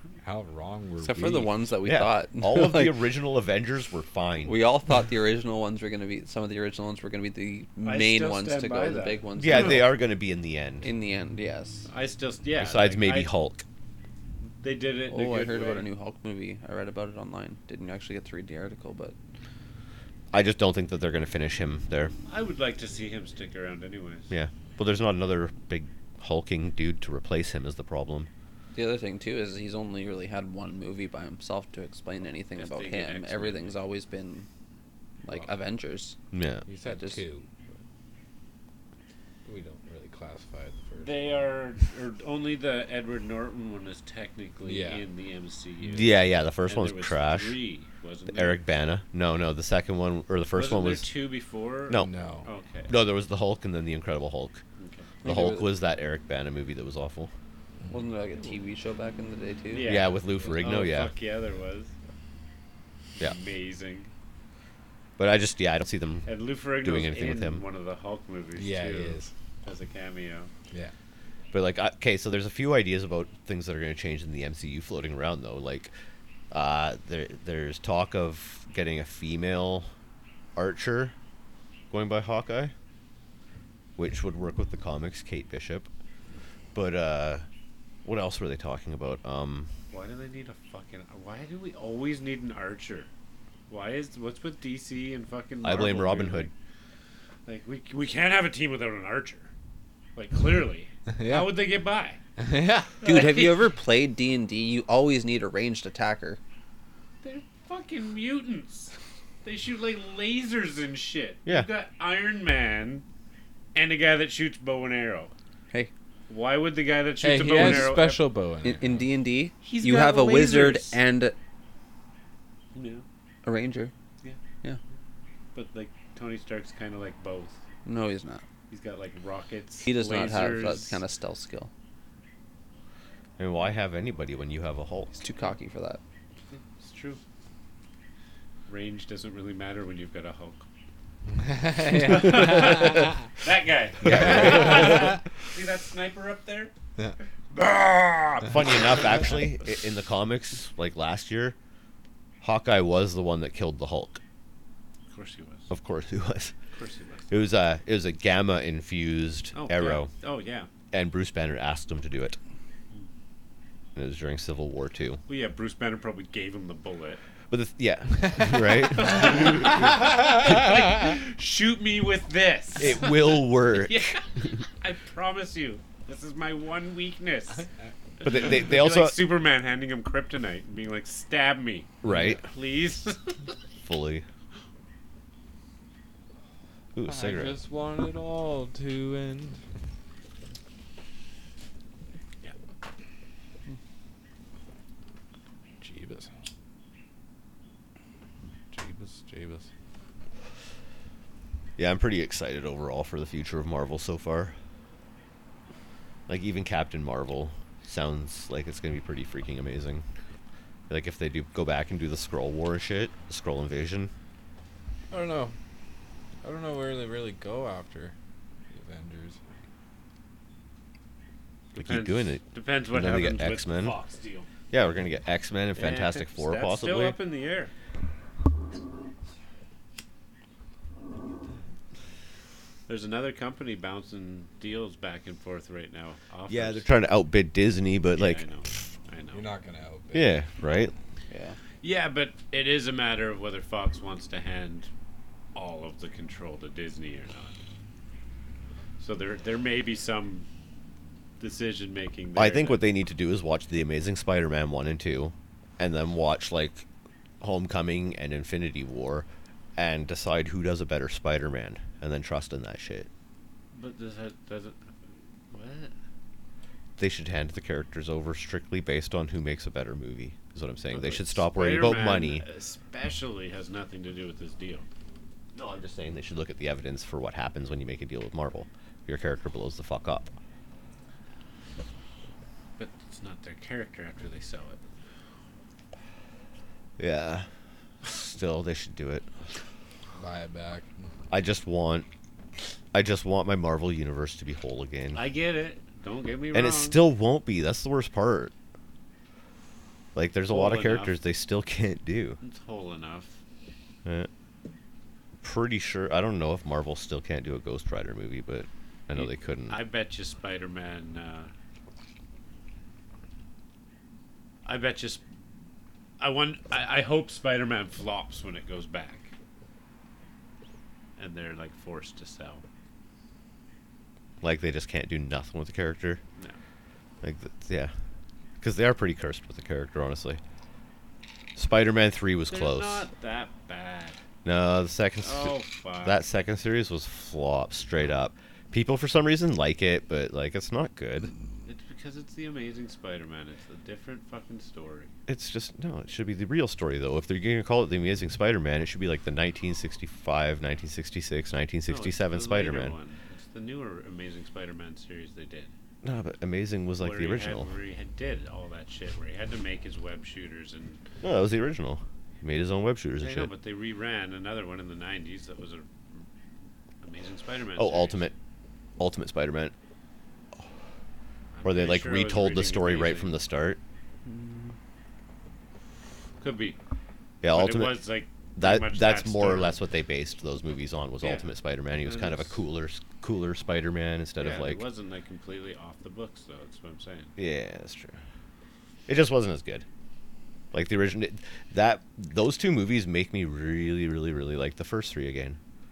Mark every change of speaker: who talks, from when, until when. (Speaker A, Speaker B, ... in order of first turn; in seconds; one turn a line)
Speaker A: 0.2-1.5
Speaker B: 1.0-3.0
Speaker C: 1.8-4.5
Speaker B: 4.5-9.9
Speaker D: 7.8-9.7
Speaker C: 9.4-10.9
Speaker B: 10.8-11.9
Speaker D: 11.9-13.3
Speaker C: 12.6-13.7
Speaker D: 14.6-15.9
Speaker B: 15.1-19.2
Speaker C: 20.3-22.1
Speaker D: 22.3-24.3
Speaker C: 24.3-28.3
Speaker B: 28.7-34.5
Speaker D: 32.6-33.8
Speaker B: 35.2-36.2
Speaker C: 36.3-36.7
Speaker A: 36.7-37.8
Speaker B: 36.8-37.2
Speaker A: 39.5-41.3
Speaker D: 41.0-48.7
Speaker A: 44.6-45.0
Speaker C: 45.9-47.6
Speaker C: 48.3-51.1
Speaker D: 50.5-52.9
Speaker A: 51.9-52.5
Speaker C: 52.9-54.6
Speaker D: 54.8-55.1
Speaker B: 55.2-55.7
Speaker C: 55.2-57.3
Speaker B: 57.9-59.9
Speaker D: 59.7-61.9
Speaker C: 59.8-61.2
Speaker D: 63.2-64.1
Speaker C: 65.2-67.6
Speaker D: 66.3-70.5
Speaker A: 68.6-69.3
Speaker C: 71.5-75.9
Speaker C: 76.5-79.9
Speaker C: 80.6-81.2
Speaker C: 81.9-82.7
Speaker C: 84.0-85.9
Speaker C: 86.8-87.5
Speaker C: 88.0-89.7
Speaker D: 89.9-93.1
Speaker D: 93.7-96.5
Speaker C: 95.6-96.5
Speaker D: 97.5-99.5
Speaker D: 100.2-102.2
Speaker A: 101.1-101.7
Speaker A: 102.4-102.9
Speaker D: 103.0-103.7
Speaker B: 103.0-106.4
Speaker D: 107.2-108.9
Speaker D: 109.4-113.0
Speaker D: 113.8-115.3
Speaker D: 116.3-118.3
Speaker A: 117.2-119.1
Speaker B: 118.6-121.3
Speaker D: 119.6-121.0
Speaker D: 122.7-123.0
Speaker B: 123.5-123.9
Speaker D: 125.5-127.6
Speaker B: 127.8-128.4
Speaker D: 128.7-131.0
Speaker B: 129.8-131.7
Speaker C: 133.4-135.2
Speaker B: 135.2-136.0
Speaker D: 136.5-137.2
Speaker D: 138.7-140.7
Speaker A: 141.3-143.2
Speaker D: 141.9-146.7
Speaker C: 144.0-145.1
Speaker A: 144.1-145.1
Speaker D: 147.6-148.4
Speaker C: 148.4-151.6
Speaker C: 152.4-154.2
Speaker D: 155.1-155.7
Speaker C: 155.7-156.5
Speaker D: 156.8-157.3
Speaker C: 157.3-160.1
Speaker D: 159.6-160.7
Speaker C: 160.9-162.4
Speaker C: 163.9-165.2
Speaker D: 165.3-167.2
Speaker C: 167.5-170.7
Speaker D: 168.9-177.7
Speaker C: 172.8-174.0
Speaker D: 178.2-183.6
Speaker C: 178.2-179.2
Speaker C: 182.0-182.5
Speaker C: 183.8-184.3
Speaker C: 186.9-187.6
Speaker A: 187.1-189.6
Speaker A: 195.8-196.3
Speaker A: 198.7-199.7
Speaker C: 201.8-204.6
Speaker C: 206.3-210.1
Speaker C: 210.9-214.1
Speaker A: 215.1-215.6
Speaker A: 216.4-218.2
Speaker A: 218.7-219.4
Speaker D: 221.7-224.5
Speaker C: 221.8-224.0
Speaker C: 224.7-227.2
Speaker D: 225.8-227.7
Speaker D: 232.9-236.9
Speaker C: 236.5-238.4
Speaker D: 238.1-239.5
Speaker A: 239.3-240.4
Speaker C: 240.1-240.9
Speaker B: 241.3-241.6
Speaker D: 241.8-244.9
Speaker D: 245.6-247.6
Speaker D: 249.0-250.5
Speaker D: 251.4-252.8
Speaker C: 252.4-256.9
Speaker C: 257.4-263.1
Speaker D: 263.7-264.9
Speaker D: 265.5-265.9
Speaker C: 267.0-272.4
Speaker D: 270.9-274.9
Speaker C: 275.5-280.3
Speaker D: 282.8-284.8
Speaker C: 287.0-287.5
Speaker C: 288.0-289.3
Speaker A: 290.1-291.1
Speaker C: 291.3-292.1
Speaker C: 292.9-295.2
Speaker D: 295.1-297.0
Speaker C: 296.5-298.5
Speaker C: 300.1-302.4
Speaker D: 300.5-301.2
Speaker D: 302.4-303.4
Speaker C: 305.4-309.8
Speaker D: 309.1-311.5
Speaker D: 314.6-315.2
Speaker D: 316.2-319.3
Speaker D: 321.2-322.6
Speaker C: 324.4-326.2
Speaker C: 327.2-327.9
Speaker C: 328.6-330.4
Speaker C: 331.6-333.1
Speaker D: 332.5-334.2
Speaker C: 334.4-341.3
Speaker D: 335.2-336.2
Speaker D: 341.7-345.1
Speaker C: 345.3-352.9
Speaker D: 351.9-355.7
Speaker C: 356.0-357.7
Speaker D: 357.0-361.0
Speaker C: 361.2-363.5
Speaker D: 363.2-365.9
Speaker D: 367.0-368.3
Speaker C: 367.8-368.3
Speaker C: 369.0-369.7
Speaker D: 371.6-373.4
Speaker C: 371.6-373.8
Speaker B: 374.3-374.7
Speaker D: 376.4-376.8
Speaker C: 377.4-378.0
Speaker D: 377.5-379.8
Speaker C: 378.6-384.8
Speaker D: 381.2-382.6
Speaker D: 384.4-387.3
Speaker C: 387.4-388.2
Speaker C: 389.1-389.9
Speaker C: 390.7-395.6